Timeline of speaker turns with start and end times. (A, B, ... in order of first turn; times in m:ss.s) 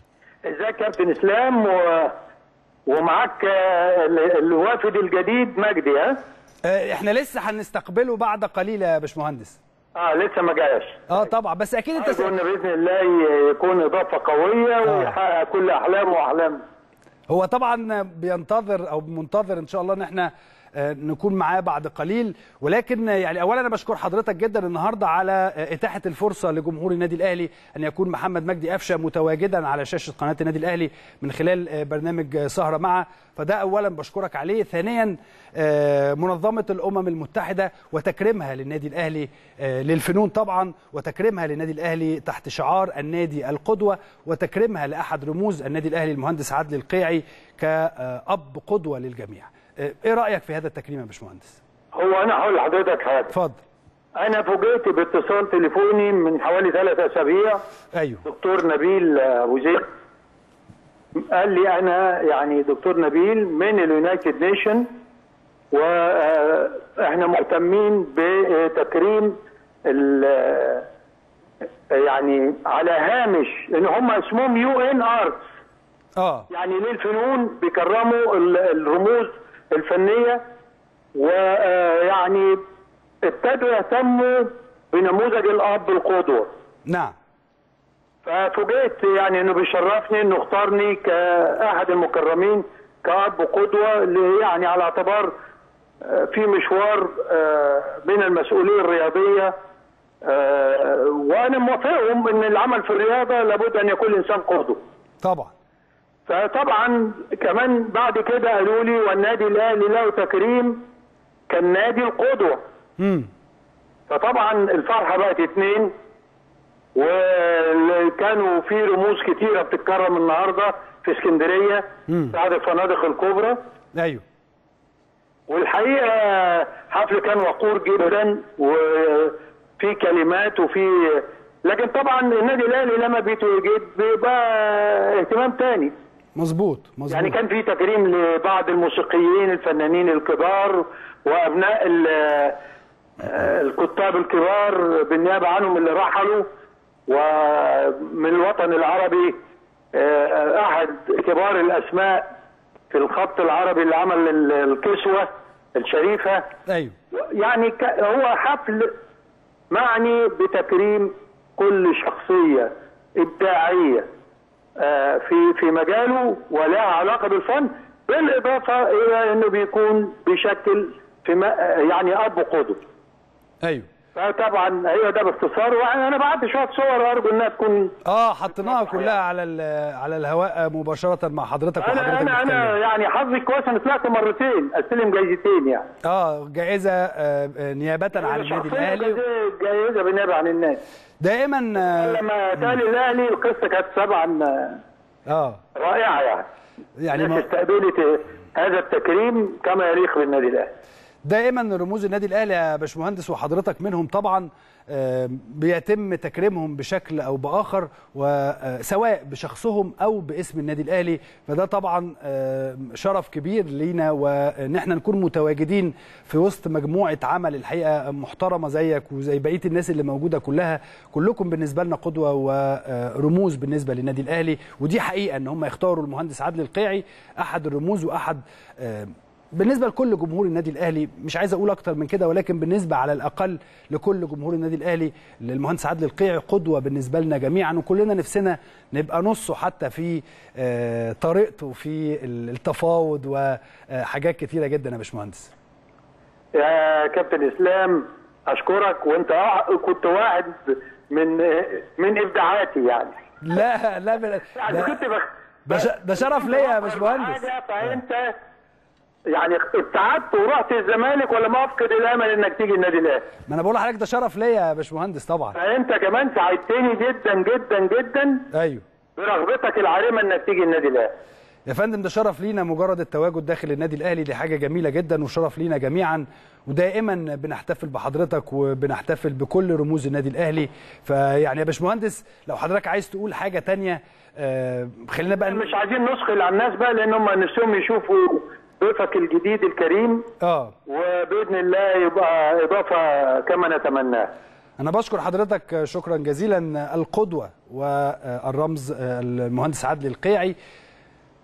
0:00.5-0:02.1 A
0:02.9-0:06.2 A
0:06.6-0:09.6 B
0:10.0-0:11.2 A
0:11.1-0:12.3 B
0:12.0-0:16.6 A
0:14.8-0:15.2 B
0:17.3-0:51.6 B
0:51.9-0:53.3 A
0:53.3-0:53.6 B
0:54.2-0:57.6 A
0:57.9-0:58.2 B
0:58.2-0:59.8 A
1:01.1-1:04.9 A
1:05.7-1:09.3 A
1:09.8-1:10.9 A
1:11.9-1:15.4 A
1:16.2-1:16.5 B
1:16.5-1:20.4 A
1:21.1-1:22.6 A
1:23.2-1:26.5 A
1:26.9-1:27.1 B
1:28.2-1:35.3 A
1:36.0-1:39.5 A
1:40.2-1:44.8 A
1:45.2-1:45.5 B
1:46.3-1:50.8 A
1:51.5-1:52.6 A
1:53.0-1:53.3 B
1:54.1-1:55.9 A
1:56.9-2:03.6 A
2:02.1-2:02.3 B
2:03.9-2:04.2 B
2:05.5-2:15.9 A
2:16.4-2:17.3 B
2:17.1-2:22.6 A
2:23.2-2:26.5 A
2:27.1-2:29.4 A
2:29.9-2:32.3 A
2:32.9-2:36.4 A
2:36.7-2:36.9 B
2:37.1-2:38.9 A
2:39.7-2:44.1 A
2:44.8-2:52.8 A
2:54.1-2:57.9 A
2:58.0-3:02.7 B
2:58.5-2:59.2 A
3:01.8-3:05.9 A
3:06.0-3:09.2 B
3:08.2-3:10.8 A
3:11.2-3:12.2 B
3:11.8-3:14.8 A
3:15.3-3:15.6 B
3:15.7-3:16.5 A
3:17.0-3:17.4 B
3:17.1-3:20.7 A
3:21.2-4:05.5 B
4:06.6-4:13.1 A
4:13.4-4:14.9 B
4:14.5-4:18.3 A
4:15.7-4:17.5 B
4:19.3-4:23.3 A
4:23.5-4:25.6 B
4:25.5-4:28.5 A
4:28.5-4:28.8 B
4:29.2-4:31.1 A
4:31.7-4:45.6 B
4:45.4-4:50.2 A
4:50.4-4:50.7 B
4:50.9-4:54.3 A
4:54.8-5:00.6 B